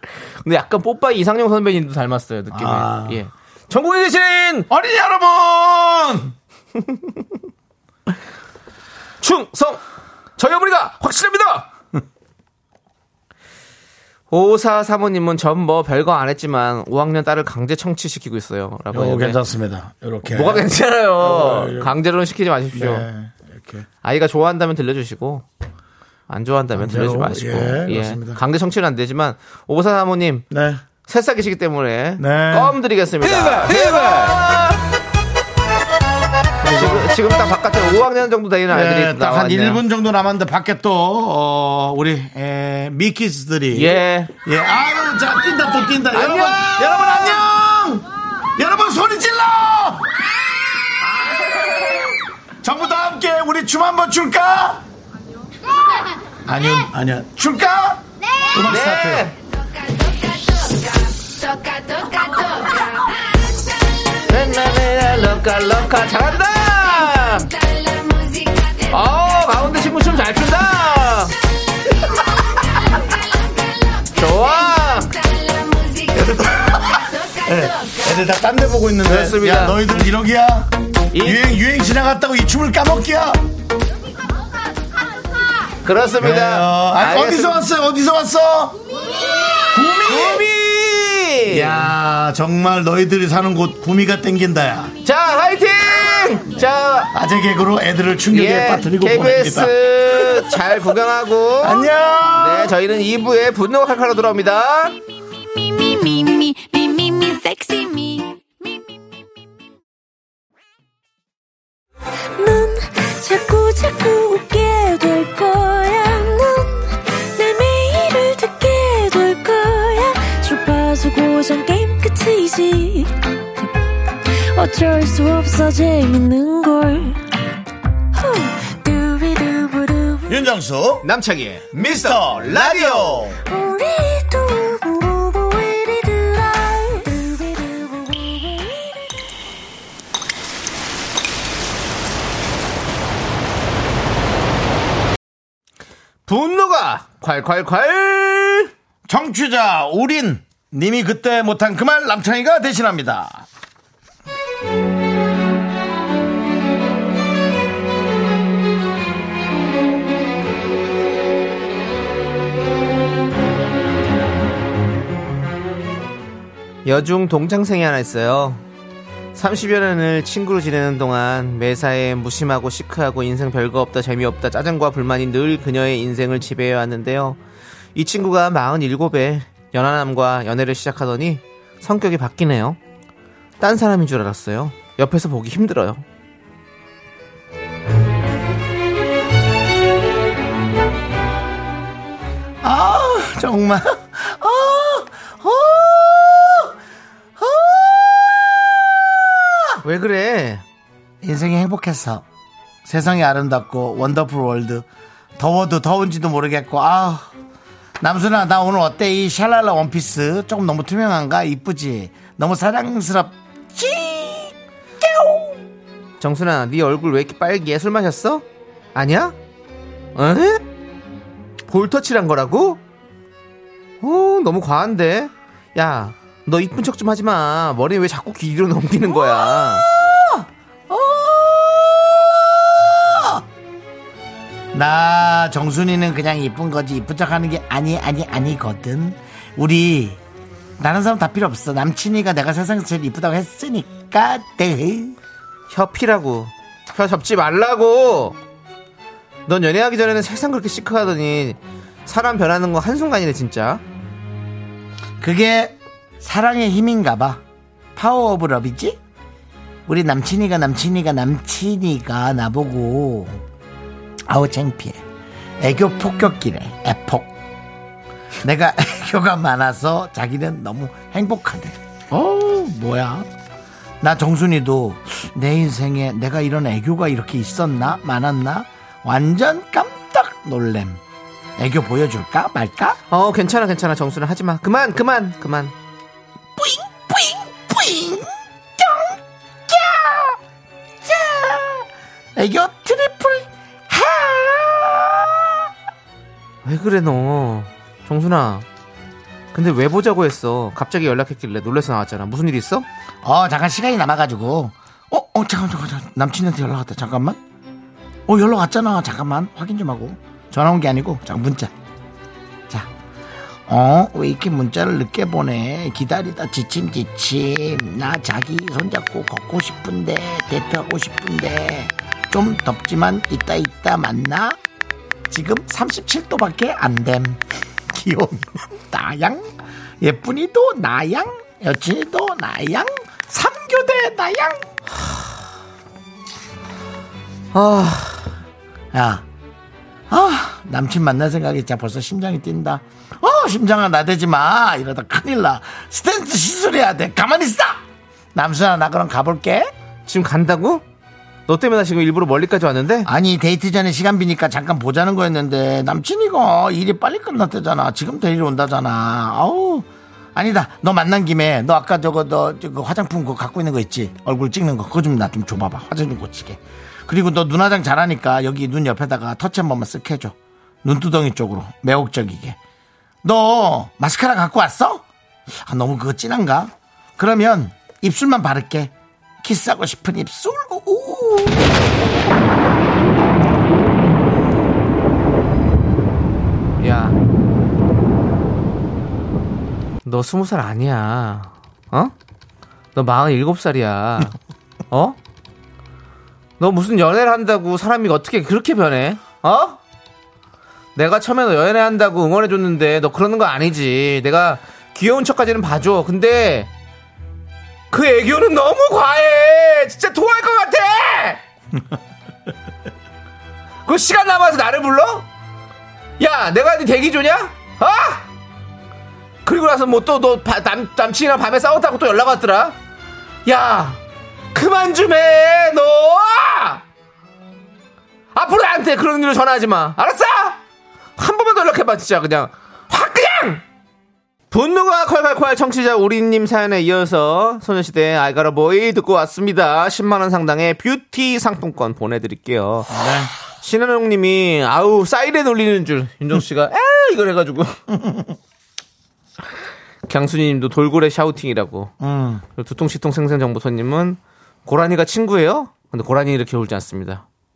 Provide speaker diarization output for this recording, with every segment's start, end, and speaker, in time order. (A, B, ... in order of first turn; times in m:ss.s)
0:00.4-0:04.7 A
0:02.5-0:03.2 B
0:04.7-0:06.4 B
0:09.2-0:09.8 A
0:10.4-0:11.7 A
0:14.3-0:19.4 A
0:18.9-0:20.7 B
0:20.3-0:23.1 A
0:21.2-0:21.9 B
0:22.7-0:23.9 B
0:24.0-0:25.4 A
0:26.3-0:30.4 A
0:26.8-0:28.4 B
0:30.5-0:30.8 B
0:31.1-0:34.8 A
0:32.2-0:34.6 B
0:36.6-0:37.1 B
0:36.7-0:39.8 A
0:38.7-0:48.0 B
0:43.7-0:44.3 A
0:46.1-0:47.3 A
0:48.6-0:50.2 B
0:51.3-0:52.0 B
0:52.6-0:54.8 B
0:56.5-0:59.3 B
0:58.6-0:59.4 A
1:01.8-1:02.7 A
1:04.3-1:07.5 A
1:08.8-1:11.3 A
1:14.1-1:15.2 A
1:16.1-1:23.5 B
1:19.0-1:19.8 A
1:21.1-1:21.5 A
1:25.8-1:27.6 A
1:26.2-1:28.8 B
1:29.7-1:30.5 B
1:30.1-1:31.9 A
1:31.5-1:34.9 B
1:35.0-1:37.1 A
1:37.1-1:41.0 B
1:38.3-1:45.0 A
1:41.6-1:42.8 B
1:45.6-1:48.4 C
1:52.4-2:03.2 C
2:04.5-2:07.2 C
2:08.1-2:10.3 C
2:10.3-2:11.1 B
2:11.0-2:13.3 A
2:11.7-2:13.4 B
2:13.5-2:19.1 C
2:26.3-2:28.7 A
2:29.1-2:33.5 B
2:46.8-2:48.6 A
2:49.4-2:57.4 A
2:58.0-3:02.8 A
3:03.6-3:06.0 A
3:12.6-3:16.8 B
3:17.4-3:19.8 B
3:19.8-3:20.6 A
3:21.2-3:22.2 B
3:22.8-3:24.9 B
3:25.4-3:27.3 B
3:28.0-3:35.6 B
3:36.2-3:39.4 A
3:40.2-3:40.6 A
3:41.7-3:42.8 A
3:44.0-3:49.9 A
3:49.1-3:53.4 B
3:54.7-4:00.2 B
4:00.8-4:05.2 B
4:05.7-4:08.4 A
4:09.5-4:13.8 A
4:15.2-4:17.4 B
4:18.0-4:19.0 B
4:19.9-4:23.4 B
4:24.3-4:25.0 B
4:25.6-4:27.3 B
4:28.4-4:33.3 B
4:34.0-4:41.0 B
4:41.6-4:43.0 B
4:43.1-4:45.7 A
4:46.6-4:50.4 B
4:51.0-4:55.7 B
4:56.6-4:58.7 A
4:59.5-5:02.9 A
5:03.2-5:07.4 B
5:08.3-5:11.7 B
5:13.7-5:24.6 B
5:25.3-5:29.5 B
5:30.0-5:34.6 B
5:37.5-5:38.3 A
5:38.9-5:39.2 B
5:40.1-5:47.8 B
5:48.3-5:49.7 B
5:50.1-5:50.8 A
5:51.5-5:53.1 A
5:53.0-6:12.6 B
6:13.2-6:15.0 B
6:15.6-6:21.9 B
6:26.8-6:27.2 A
6:30.0-6:32.1 A
6:33.0-6:34.4 A
6:34.9-6:35.2 A
6:36.6-6:39.8 A
6:41.0-6:46.7 A
6:47.9-6:51.4 A
6:53.9-6:55.3 A
6:56.2-6:58.3 A
6:59.4-7:02.8 A
7:03.4-7:04.0 A
7:04.5-7:06.8 A
7:08.3-7:10.6 A
7:11.2-7:13.6 A
7:14.5-7:23.0 A
7:22.9-7:23.3 B
7:23.6-7:27.8 A
7:27.9-7:28.3 B
7:30.1-7:31.9 A
7:32.0-7:32.4 B
7:32.6-7:37.2 A